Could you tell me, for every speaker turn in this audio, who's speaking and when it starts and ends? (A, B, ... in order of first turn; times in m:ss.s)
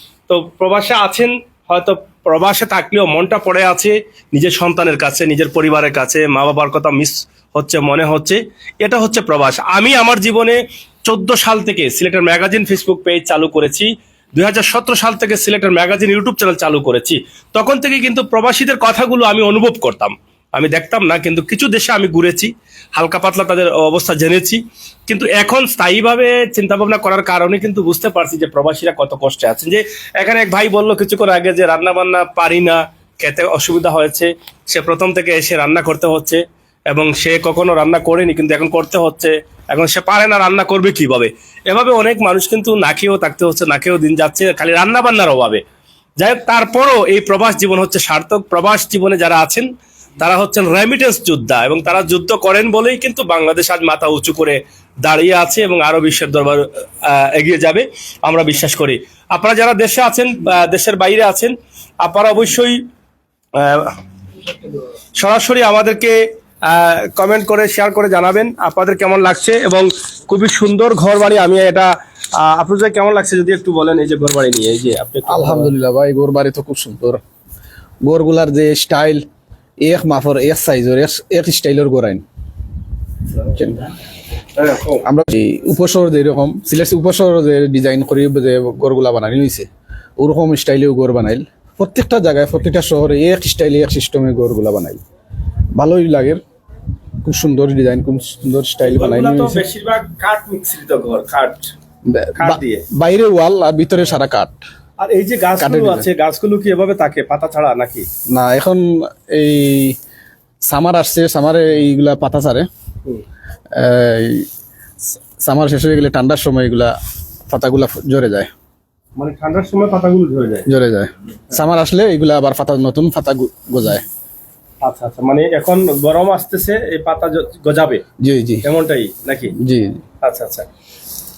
0:00.3-0:45.6 A
0:46.2-0:49.7 A
0:50.2-1:02.8 A
1:03.6-1:04.0 A
1:05.2-1:15.7 A
1:15.3-1:17.2 B
1:18.0-1:19.3 B
1:19.8-1:22.2 B
1:23.5-1:23.9 B
1:24.6-1:25.0 A
1:25.0-1:29.7 B
1:30.2-1:35.0 B
1:35.7-1:36.4 B
1:37.2-1:39.6 B
1:38.8-1:41.7 A
1:42.1-1:44.6 B
1:42.4-1:42.8 A
1:45.0-1:48.1 A
1:45.6-1:46.1 B
1:48.3-1:50.0 B
1:50.6-1:52.7 B
1:53.7-1:54.5 B
1:55.4-1:57.0 B
1:57.5-1:58.5 B
1:59.2-2:00.7 A
2:00.7-2:04.0 B
2:04.8-2:08.0 A
2:08.2-2:08.6 B
2:08.6-2:09.5 A
2:09.6-2:10.0 B
2:10.2-2:10.7 A